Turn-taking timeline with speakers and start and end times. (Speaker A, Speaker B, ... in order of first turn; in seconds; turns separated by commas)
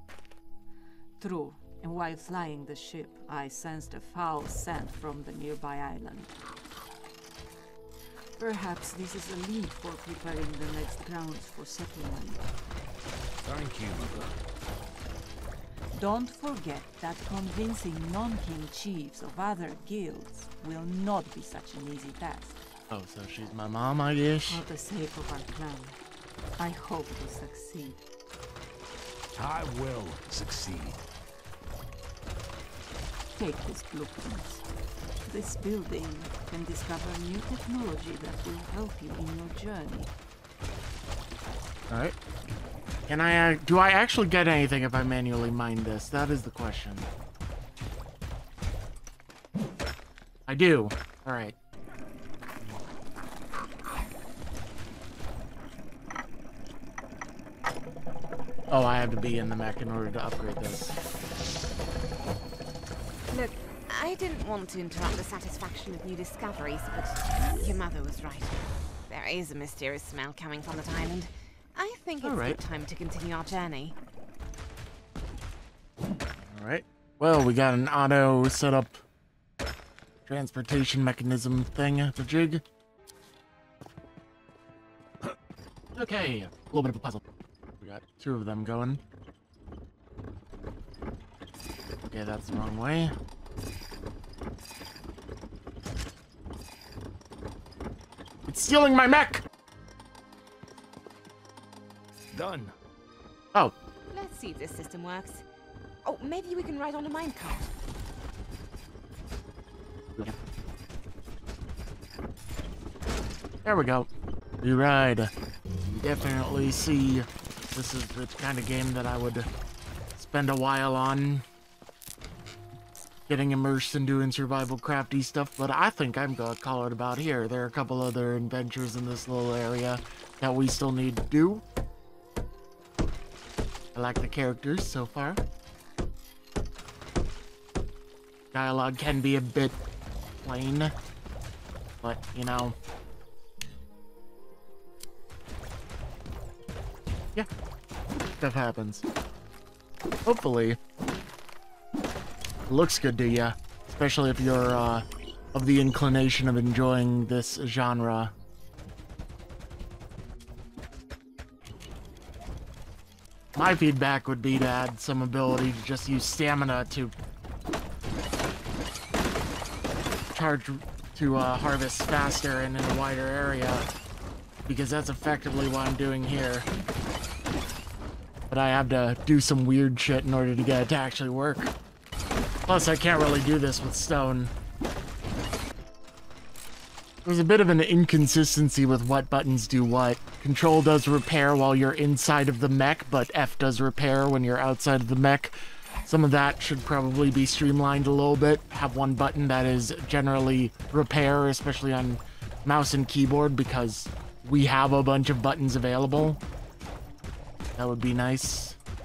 Speaker A: 1.2-6.4, Speaker A: 8.4-12.4, Speaker B: 13.4-14.4, Speaker A: 15.9-22.6, Speaker C: 22.9-24.6, Speaker A: 24.5-26.0, Speaker A: 26.6-28.0, Speaker B: 29.4-31.0, Speaker A: 33.4-34.6, Speaker A: 35.3-40.1, Speaker C: 41.9-42.2, Speaker C: 43.1-47.1, Speaker C: 50.5-51.5, Speaker C: 58.7-61.0, Speaker D: 63.3-74.0, Speaker C: 72.2-72.6, Speaker C: 76.4-79.0, Speaker C: 80.3-82.6, Speaker C: 86.0-87.2, Speaker C: 87.8-89.0, Speaker C: 92.0-93.1, Speaker C: 98.5-99.4, Speaker B: 102.3-102.7, Speaker D: 104.1-105.4, Speaker D: 106.0-107.7, Speaker C: 113.7-114.1, Speaker C: 114.6-115.3, Speaker C: 115.9-119.5, Speaker C: 120.2-121.4, Speaker C: 123.3-131.6, Speaker C: 133.9-135.4, Speaker C: 138.5-139.8, Speaker C: 140.4-140.9, Speaker C: 142.0-142.8, Speaker C: 148.4-149.0, Speaker C: 150.2-150.8, Speaker C: 152.7-158.3, Speaker C: 163.6-167.1, Speaker C: 170.3-173.9, Speaker C: 174.7-176.7, Speaker C: 178.5-181.7, Speaker C: 182.7-184.5, Speaker C: 187.2-206.4, Speaker C: 207.8-208.8